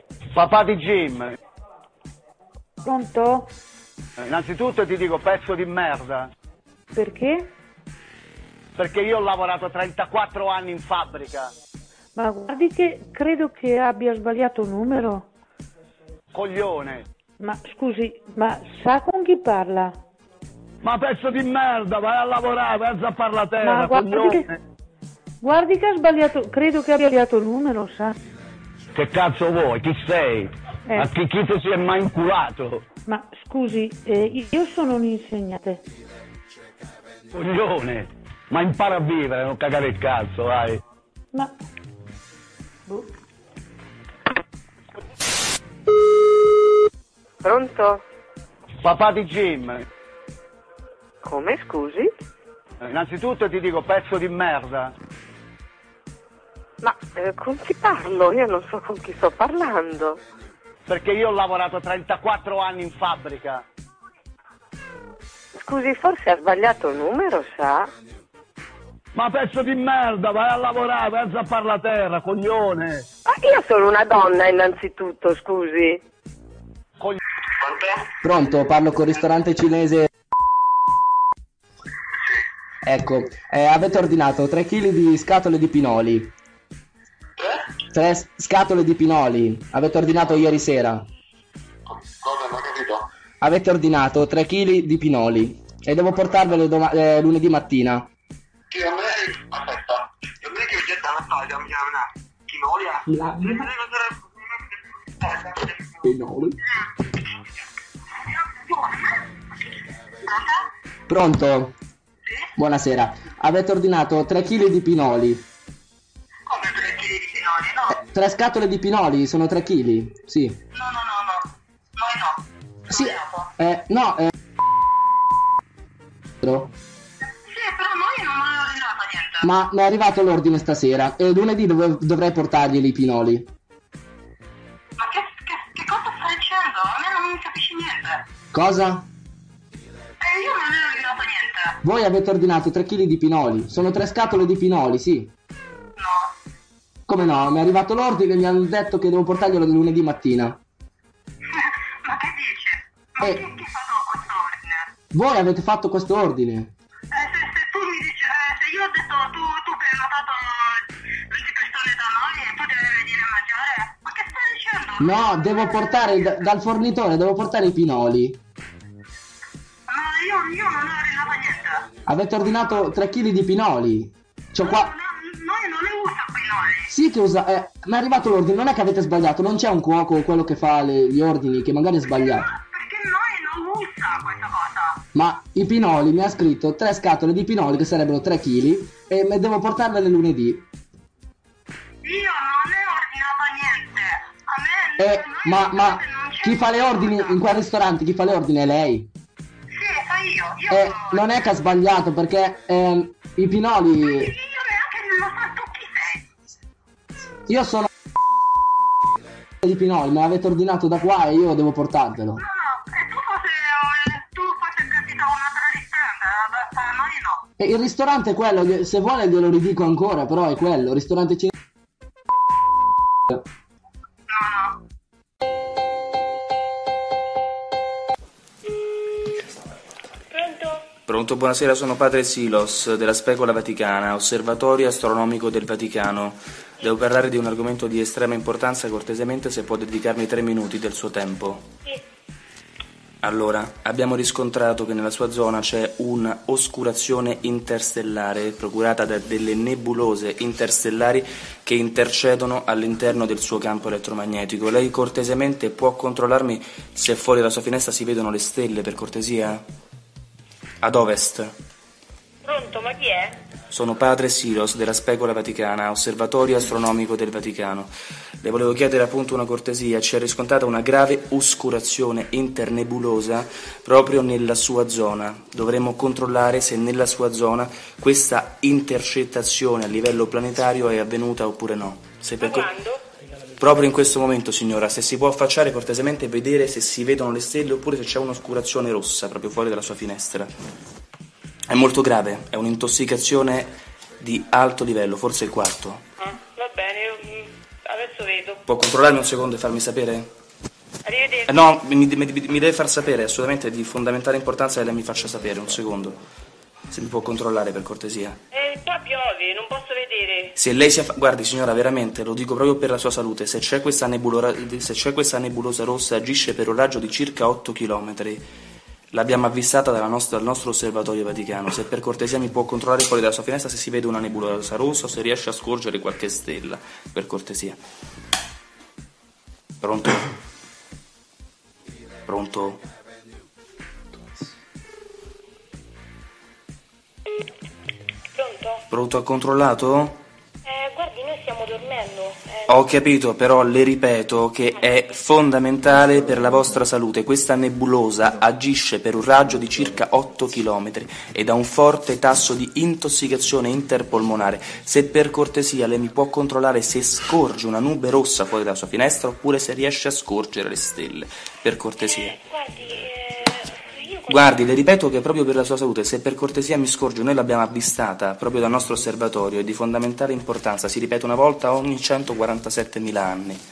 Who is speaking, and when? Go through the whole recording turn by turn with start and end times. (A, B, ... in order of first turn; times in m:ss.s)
0:00.3-0:01.3 A
0:02.8-0:03.5 B
0:04.2-0:06.3 A
0:06.9-0:07.5 B
0:08.8-0:11.5 A
0:12.1-0:15.2 B
0:16.3-0:17.0 A
0:17.4-0:20.0 B
0:20.8-0:24.6 A
0:23.6-0:24.5 B
0:25.4-0:28.1 B
0:28.9-0:32.8 A
0:30.9-0:31.1 B
0:33.0-0:35.8 B
0:37.3-0:40.8 A
0:47.4-0:48.0 C
0:48.8-0:49.8 A
0:51.2-0:52.1 C
0:52.8-0:54.9 A
0:56.8-1:00.2 C
1:00.9-1:03.6 A
1:05.5-1:07.9 C
1:09.1-1:13.1 A
1:13.2-1:16.0 C
1:17.6-1:18.1 D
1:18.2-1:20.1 E
1:22.8-1:26.3 E
1:27.9-1:31.0 E
1:31.9-1:33.0 D
1:33.4-1:38.1 E
1:38.7-1:44.3 D
1:45.2-1:46.0 D
1:46.0-1:46.6 E
1:48.5-1:49.2 D
1:50.2-1:50.6 D
1:51.1-1:51.7 E
1:52.6-1:55.4 E
1:56.5-1:57.9 D
1:57.9-2:00.6 E
2:00.7-2:03.5 D
2:02.9-2:04.3 E
2:06.4-2:06.7 E
2:07.4-2:09.5 D
2:09.4-2:13.5 E
2:15.0-2:18.2 D
2:18.5-2:19.0 E
2:20.2-2:21.8 D
2:21.8-2:25.3 E
2:26.0-2:26.3 D
2:27.1-2:30.6 E
2:31.5-2:34.9 D
2:35.1-2:36.7 E
2:37.1-2:46.4 D
2:45.0-2:48.4 E
2:49.9-2:51.9 D
2:52.1-2:54.9 E
2:54.6-2:56.9 D
2:56.9-3:02.5 E
3:02.1-3:05.0 D
3:05.1-3:10.6 E
3:12.0-3:17.4 D
3:15.0-3:19.1 E
3:19.7-3:21.3 D
3:20.7-3:24.3 E
3:24.0-3:26.3 D
3:27.5-3:27.9 E
3:29.6-3:32.4 E
3:32.4-3:37.4 D
3:37.6-3:41.5 E
3:44.3-3:44.8 D
3:50.3-3:50.9 F
3:51.1-4:01.7 G
4:03.2-4:19.6 G
4:20.8-4:21.6 G
4:23.7-4:42.7 G
4:42.4-4:43.0 F
4:43.6-4:50.5 G
4:51.7-4:56.0 G
4:58.6-5:00.3 G
5:01.4-5:06.2 G
5:06.9-5:08.4 G
5:10.5-5:18.5 G
5:19.1-5:27.8 G
5:29.8-5:30.3 G
5:32.2-5:32.8 G
5:38.4-5:38.8 F
5:38.9-5:40.2 G
5:40.6-5:42.8 F
5:42.7-6:02.4 G
6:02.0-6:04.7 F
6:04.3-6:13.6 G